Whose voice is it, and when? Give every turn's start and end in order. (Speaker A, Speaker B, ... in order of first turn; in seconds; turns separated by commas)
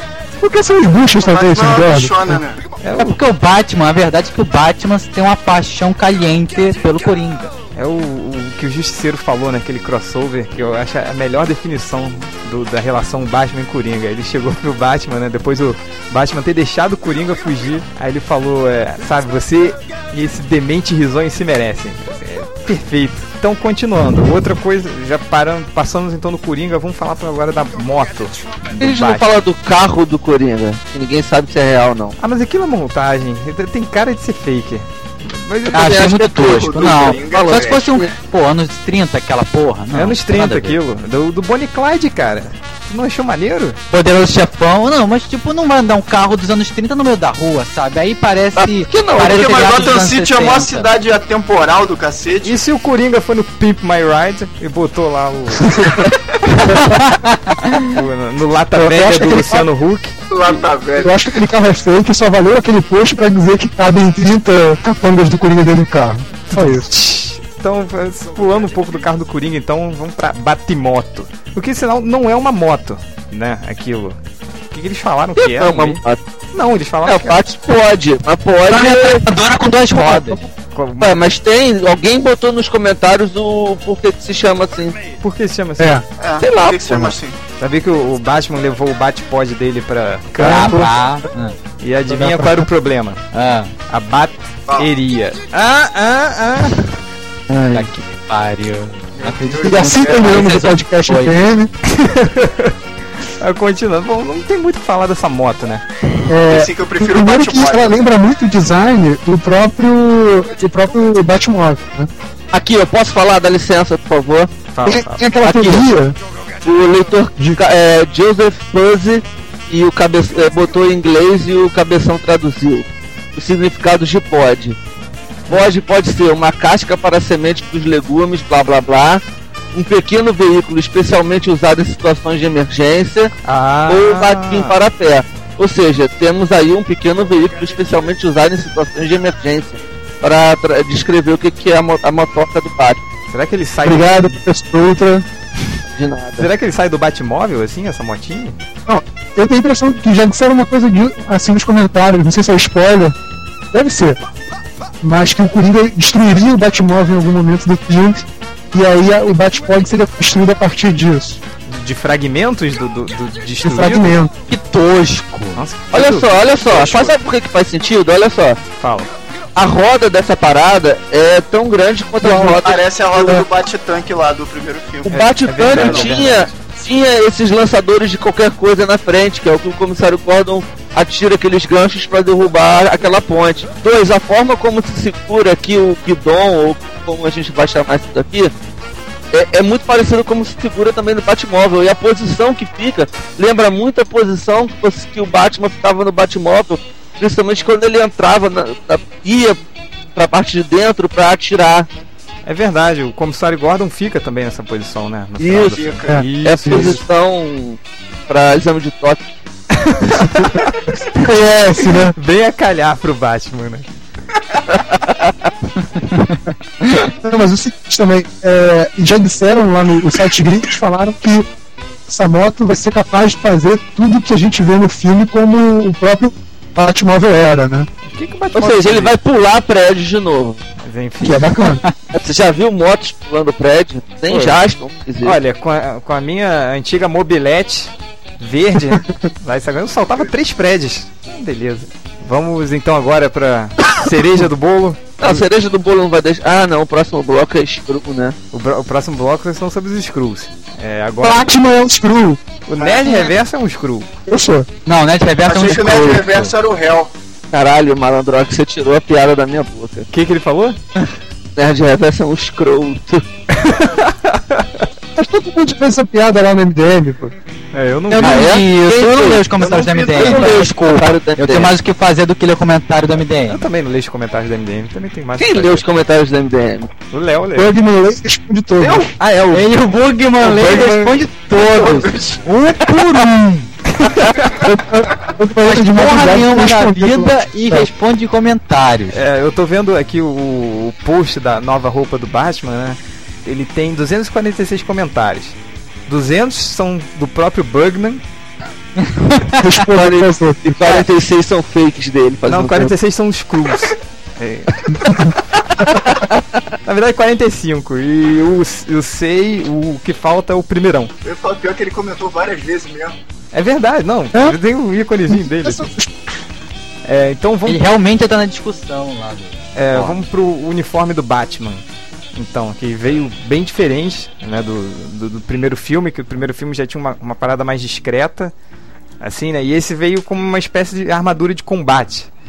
Speaker A: 0.4-2.4, Speaker B: 1.2-2.6, Speaker C: 2.8-3.2, Speaker D: 3.0-7.5, Speaker C: 7.8-29.3, Speaker E: 28.8-32.2, Speaker C: 32.2-36.1, Speaker E: 35.7-38.1, Speaker D: 35.7-40.8, Speaker B: 36.3-37.9, Speaker C: 39.9-43.8, Speaker D: 43.9-50.9, Speaker E: 48.6-49.9, Speaker B: 49.1-52.6, Speaker C: 52.4-56.8, Speaker D: 56.8-57.8, Speaker C: 57.8-60.2, Speaker A: 58.7-59.7, Speaker B: 60.3-61.2, Speaker A: 61.0-66.9, Speaker C: 66.5-74.2, Speaker C: 74.7-76.0, Speaker E: 75.4-76.2, Speaker C: 76.5-77.4, Speaker E: 77.0-79.2, Speaker D: 78.7-80.4, Speaker C: 79.8-81.2, Speaker E: 81.0-85.0, Speaker C: 85.2-86.0, Speaker B: 86.2-87.4, Speaker E: 86.4-87.2, Speaker C: 87.6-90.9, Speaker D: 90.4-91.5, Speaker C: 91.8-93.2, Speaker A: 92.1-92.7, Speaker D: 93.3-93.7, Speaker C: 93.9-96.8, Speaker B: 94.7-94.9, Speaker E: 97.5-97.9, Speaker D: 97.7-101.4, Speaker B: 99.2-100.3, Speaker A: 99.6-101.7, Speaker C: 101.9-105.8, Speaker A: 106.3-112.1, Speaker B: 106.5-108.1, Speaker E: 112.5-114.6, Speaker C: 114.7-115.3, Speaker A: 114.8-116.2, Speaker E: 115.4-115.9, Speaker E: 116.6-124.8, Speaker E: 125.5-129.2, Speaker E: 129.7-133.3, Speaker C: 133.4-134.8, Speaker E: 133.9-143.0, Speaker C: 143.3-144.3, Speaker A: 143.8-145.3, Speaker E: 146.0-146.5, Speaker C: 146.4-148.6, Speaker A: 148.9-153.2, Speaker A: 153.7-154.2, Speaker A: 155.0-161.4, Speaker C: 161.7-164.2, Speaker A: 163.6-164.3, Speaker D: 164.5-165.6, Speaker C: 165.6-167.2, Speaker E: 165.9-168.6, Speaker C: 168.7-169.1, Speaker E: 169.6-172.9, Speaker A: 172.2-173.5, Speaker B: 172.6-176.4, Speaker E: 175.1-188.5, Speaker C: 175.1-176.5, Speaker E: 189.3-199.6, Speaker E: 200.2-201.9, Speaker C: 202.4-207.0, Speaker E: 205.4-205.8, Speaker B: 205.7-206.2, Speaker E: 206.4-209.2, Speaker C: 209.7-210.7, Speaker A: 211.1-212.2, Speaker E: 211.2-212.0, Speaker C: 212.2-213.9, Speaker E: 214.7-215.3, Speaker D: 216.0-216.4, Speaker A: 217.2-221.5, Speaker A: 222.1-227.9, Speaker C: 228.0-229.2, Speaker E: 228.5-230.6, Speaker C: 230.8-231.7, Speaker A: 231.2-231.8, Speaker E: 232.1-235.4, Speaker C: 234.3-234.6, Speaker C: 235.2-245.4, Speaker E: 245.2-248.4, Speaker C: 248.5-251.4, Speaker A: 251.2-252.4, Speaker C: 252.7-254.1, Speaker B: 252.8-253.2, Speaker A: 254.3-254.7, Speaker D: 254.9-256.5, Speaker B: 255.4-257.1, Speaker E: 257.5-260.1, Speaker C: 260.1-260.8, Speaker E: 261.6-263.2, Speaker C: 263.5-264.9, Speaker A: 265.2-267.3, Speaker C: 267.7-268.6, Speaker D: 268.1-273.6, Speaker E: 268.2-269.5, Speaker B: 269.5-270.7, Speaker E: 270.1-271.7, Speaker C: 273.5-275.8, Speaker E: 275.4-276.9, Speaker C: 277.1-277.7, Speaker A: 277.6-279.1, Speaker E: 278.8-279.7, Speaker D: 279.5-283.6, Speaker E: 280.6-281.0, Speaker B: 281.5-282.4, Speaker A: 282.7-283.4, Speaker E: 284.1-285.1, Speaker A: 285.3-287.9, Speaker D: 285.6-289.2, Speaker C: 289.1-295.6, Speaker C: 296.1-298.2, Speaker D: 299.0-299.6, Speaker A: 299.6-300.6, Speaker E: 299.9-302.9, Speaker C: 302.5-305.3, Speaker E: 305.9-306.4, Speaker C: 306.9-311.1, Speaker B: 311.2-313.2, Speaker C: 313.5-315.9, Speaker A: 314.3-314.6, Speaker A: 315.4-316.1, Speaker C: 317.1-317.8, Speaker D: 317.7-320.2, Speaker C: 319.8-321.8, Speaker C: 322.4-328.5, Speaker C: 329.2-332.3